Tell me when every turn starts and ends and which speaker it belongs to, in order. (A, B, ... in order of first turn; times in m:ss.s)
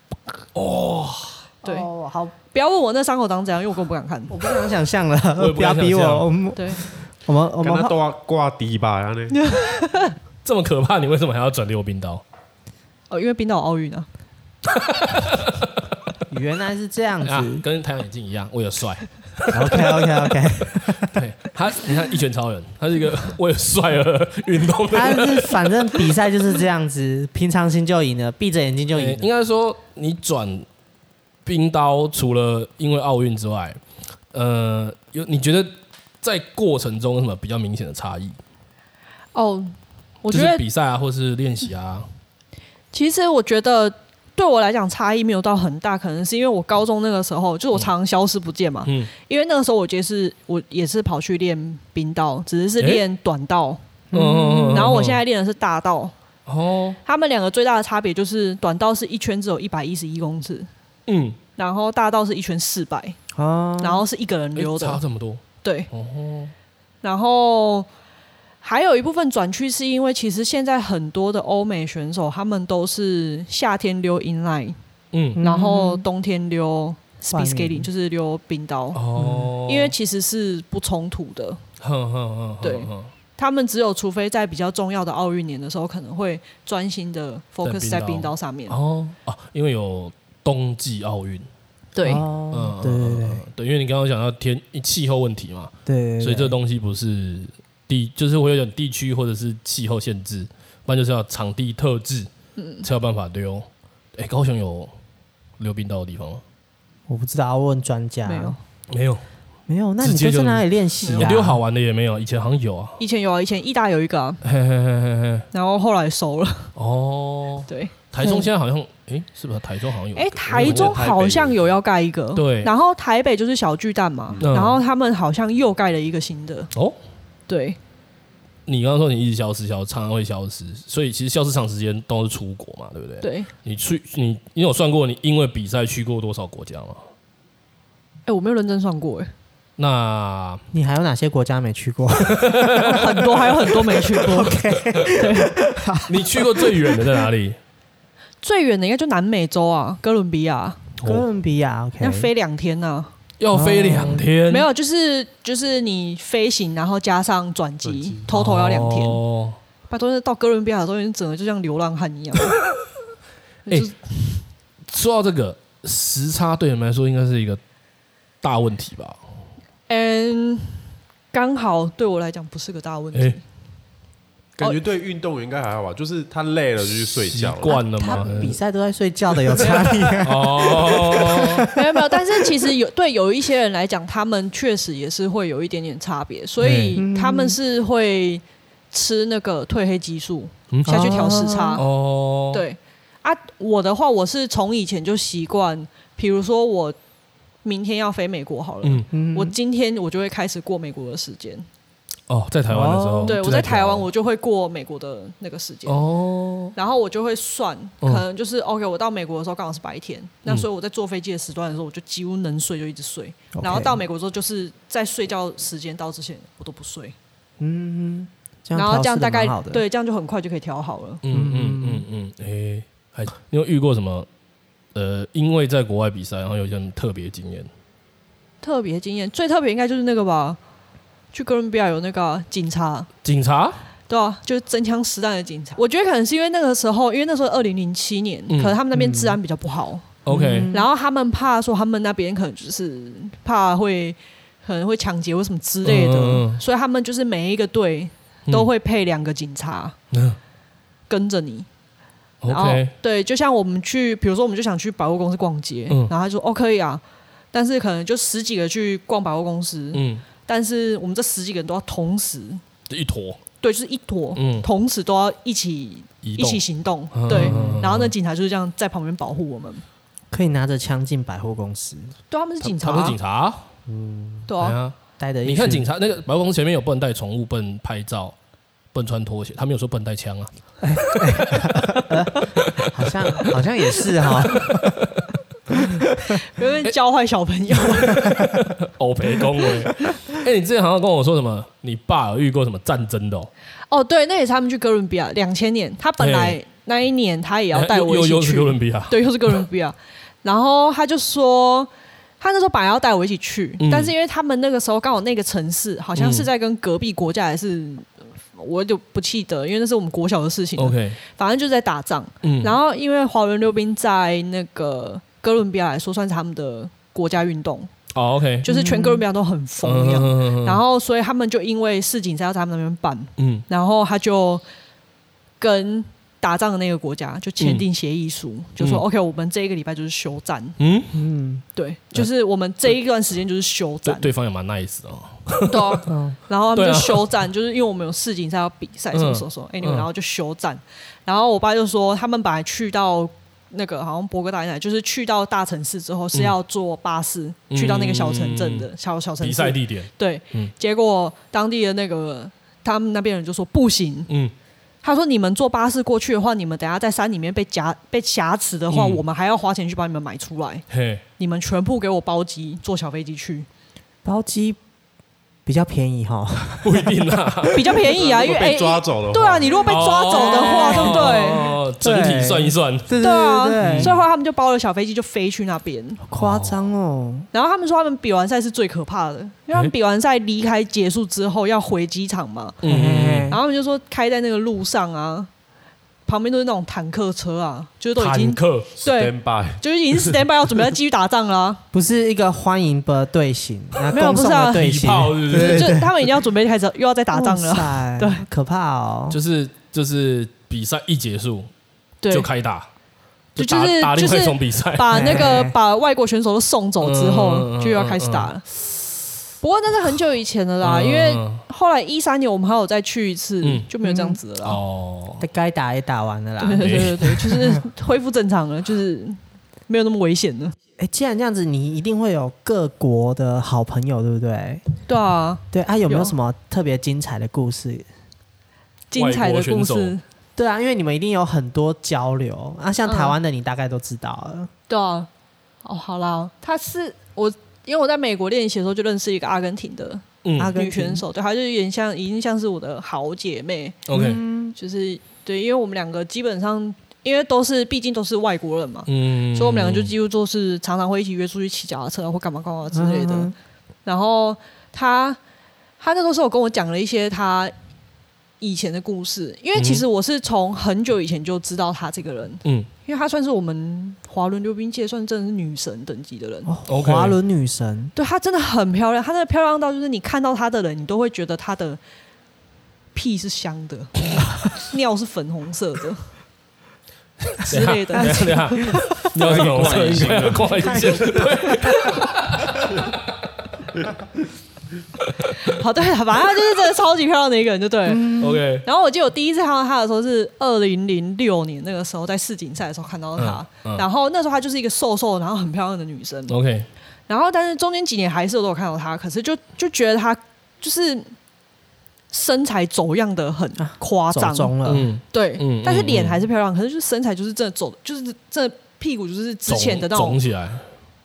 0:00.6-0:01.5 A
0:01.6-0:01.9 B
0:01.6-0:02.3 C
0:02.5-0:04.6 B
0:04.3-0:08.0 C
0:05.4-0:06.3 A
0:06.6-0:06.8 B
0:07.6-0:09.4 D
0:09.3-0:10.2 B
0:10.4-0:12.2 A
0:13.1-0:14.1 B
0:14.8-0:15.6 A
0:16.3-0:17.6 C
0:17.2-0:26.1 A
0:19.5-0:21.2 C
0:24.9-0:29.3 C
0:28.9-0:30.6 A
0:31.5-0:33.8 A
0:34.3-0:35.7 A
0:36.2-0:38.4 A
0:39.3-0:40.6 B
0:40.3-0:42.1 A
0:42.9-0:53.8 B
0:48.8-0:49.1 A
0:52.8-0:53.0 A
0:54.1-0:55.0 C
0:54.1-0:55.2 A
0:54.7-0:56.1 B
0:56.5-0:57.0 A
0:57.0-1:00.7 B
1:01.1-1:01.4 A
1:01.6-1:03.2 B
1:03.3-1:04.1 C
1:03.8-1:05.0 B
1:04.6-1:06.5 A
1:05.6-1:05.9 B
1:07.0-1:07.9 B
1:08.6-1:14.8 B
1:15.1-1:15.4 A
1:15.4-1:16.1 C
1:15.4-1:19.0 B
1:17.3-1:17.9 C
1:18.9-1:19.9 A
1:19.2-1:19.5 C
1:19.6-1:21.6 B
1:21.8-1:23.1 A
1:22.6-1:28.8 B
1:27.6-1:31.5 A
1:32.0-1:32.2 B
1:32.0-1:33.4 C
1:32.5-1:42.3 A
1:35.9-1:36.6 C
1:42.6-1:42.9 B
1:42.8-1:44.9 A
1:45.6-1:46.4 A
1:47.1-1:48.6 C
1:48.3-1:48.6 B
1:48.9-1:49.2 A
1:49.7-1:51.6 C
1:50.0-1:53.0 A
1:51.0-1:51.3 B
1:53.0-1:54.4 B
1:54.4-1:55.5 A
1:55.5-1:56.7 B
1:56.8-2:01.5 A
1:57.7-1:57.9 B
1:58.2-1:58.5 C
2:00.2-2:06.7 B
2:00.6-2:01.5 D
2:02.4-2:02.7 A
2:04.4-2:04.8 A
2:07.5-2:07.8 B
2:08.7-2:17.0 A
2:13.2-2:13.5 B
2:18.3-2:19.3 B
2:19.8-2:20.6 A
2:20.7-2:27.1 C
2:22.2-2:23.1 A
2:22.8-2:25.6 B
2:26.1-2:27.6 A
2:28.4-2:30.8 B
2:31.0-2:31.2 A
2:31.0-2:32.3 C
2:32.0-2:33.1 B
2:33.4-2:34.7 A
2:33.5-2:34.2 C
2:34.5-2:39.2 B
2:37.8-2:38.2 D
2:38.3-2:39.6 A
2:39.9-2:42.6 B
2:43.7-2:44.4 B
2:44.9-2:47.6 A
2:48.4-2:49.2 A
2:49.9-2:53.4 B
2:54.6-2:57.8 D
2:56.8-2:58.6 A
2:57.6-2:58.4 B
2:58.1-3:02.0 C
2:59.6-3:00.2 B
3:00.2-3:01.7 A
3:01.6-3:11.8 B
3:06.6-3:07.0 A
3:07.0-3:07.6 C
3:10.7-3:12.6 A
3:10.9-3:11.8 C
3:12.5-3:17.0 B
3:17.6-3:21.7 B
3:19.1-3:19.6 C
3:22.3-3:24.1 A
3:22.7-3:23.4 C
3:23.2-3:26.0 B
3:25.9-3:26.7 A
3:26.8-3:37.2 B
3:33.6-3:34.0 C
3:37.6-3:39.8 C
3:38.8-3:41.2 B
3:41.2-3:44.3 A
3:41.3-3:42.1 C
3:45.0-3:47.7 A
3:48.6-3:50.6 B
3:51.3-3:53.1 B
3:53.2-3:53.8 A
3:54.1-4:00.1 B
3:58.5-3:58.8 A
3:59.0-3:59.4 C
4:00.2-4:00.7 A
4:00.3-4:00.9 C
4:00.7-4:10.0 B
4:05.8-4:06.6 A
4:10.1-4:10.4 A
4:11.1-4:11.7 B
4:12.4-4:12.9 A
4:12.5-4:22.6 B
4:19.9-4:20.2 A
4:22.9-4:23.4 A
4:23.6-4:29.8 B
4:24.4-4:24.7 A
4:26.2-4:26.6 A
4:27.1-4:28.1 A
4:27.3-4:27.8 C
4:30.3-4:32.1 C
4:32.3-4:33.2 B
4:32.6-4:33.7 A
4:33.9-4:34.5 C
4:34.5-4:34.8 B
4:34.6-4:38.4 A
4:35.2-4:35.9 C
4:38.9-4:41.7 A
4:40.8-4:45.0 C
4:44.5-4:45.2 A
4:45.7-4:46.4 C
4:46.3-4:48.4 B
4:48.1-4:53.5 A
4:53.9-5:01.9 B
4:56.2-4:56.6 A
4:57.7-4:59.6 A
5:02.4-5:17.9 B
5:03.8-5:04.1 A
5:06.2-5:06.5 A
5:10.8-5:11.2 A
5:12.4-5:12.8 A
5:18.1-5:18.7 A
5:18.6-5:24.6 B
5:18.7-5:19.2 C
5:19.8-5:20.8 A
5:23.4-5:23.6 A
5:25.6-5:30.8 B
5:30.8-5:31.1 A
5:31.1-5:31.6 C
5:31.8-5:34.3 B
5:34.1-5:36.1 A
5:35.6-5:54.3 B
5:36.1-5:36.4 C
5:36.7-5:37.3 A
5:39.1-5:40.1 A
5:47.7-5:48.9 A
5:49.4-5:50.7 A
5:55.0-6:00.9 B
5:58.9-5:59.2 A
6:00.9-6:01.2 A
6:01.4-6:03.7 B
6:04.2-6:04.8 C
6:05.7-6:07.7 C
6:06.8-6:07.8 A
6:07.7-6:11.8 B
6:08.0-6:10.0 D
6:09.9-6:13.1 A
6:10.4-6:14.2 C
6:13.2-6:16.2 B
6:13.8-6:14.1 A
6:16.2-6:17.5 C
6:16.3-6:16.8 A
6:17.5-6:22.8 B
6:22.8-6:23.5 A
6:22.8-6:23.6 C
6:23.5-6:25.5 B
6:26.3-6:31.8 B
6:28.2-6:28.9 A
6:29.0-6:30.4 D
6:31.9-6:36.1 C
6:34.1-6:38.4 B
6:34.7-6:36.1 A
6:37.3-6:39.4 C
6:39.3-6:41.7 A
6:42.2-6:42.5 B
6:42.3-6:42.9 A
6:43.6-6:45.5 A
6:43.6-6:48.6 B
6:45.1-6:45.7 C
6:47.0-6:48.5 A
6:49.6-6:54.8 B
6:50.8-6:51.6 A
6:53.6-6:53.9 A
6:54.0-6:54.4 C
6:54.6-6:55.5 A
6:55.4-6:57.8 C
6:56.6-7:00.8 B
6:56.8-6:57.4 A
7:01.0-7:04.8 C
7:05.1-7:06.3 B
7:05.7-7:08.1 C
7:09.1-7:10.2 B
7:09.2-7:10.2 A
7:10.6-7:14.7 C
7:13.0-7:13.4 B
7:14.9-7:15.3 B
7:15.8-7:24.1 B
7:20.4-7:20.7 A
7:20.6-7:21.2 C
7:24.1-7:24.4 A
7:24.1-7:24.8 C
7:24.8-7:33.5 B
7:29.1-7:30.1 A
7:32.9-7:33.5 C
7:34.0-7:35.4 B
7:36.0-7:37.7 B
7:38.6-7:46.7 B
7:39.8-7:40.0 A
7:42.6-7:42.9 A
7:46.7-7:48.1 C
7:46.9-7:47.4 A
7:48.2-7:52.0 B
7:53.1-7:56.3 B
7:57.5-8:03.1 A
7:57.6-7:59.0 B
7:58.2-8:02.1 C
7:59.4-8:01.6 D
8:05.6-8:16.5 B
8:08.1-8:08.6 C
8:08.4-8:08.8 A
8:13.4-8:14.0 A
8:16.5-8:16.9 A
8:17.3-8:21.3 B
8:22.3-8:30.4 B
8:23.8-8:25.1 C
8:24.9-8:26.4 A
8:29.7-8:30.8 A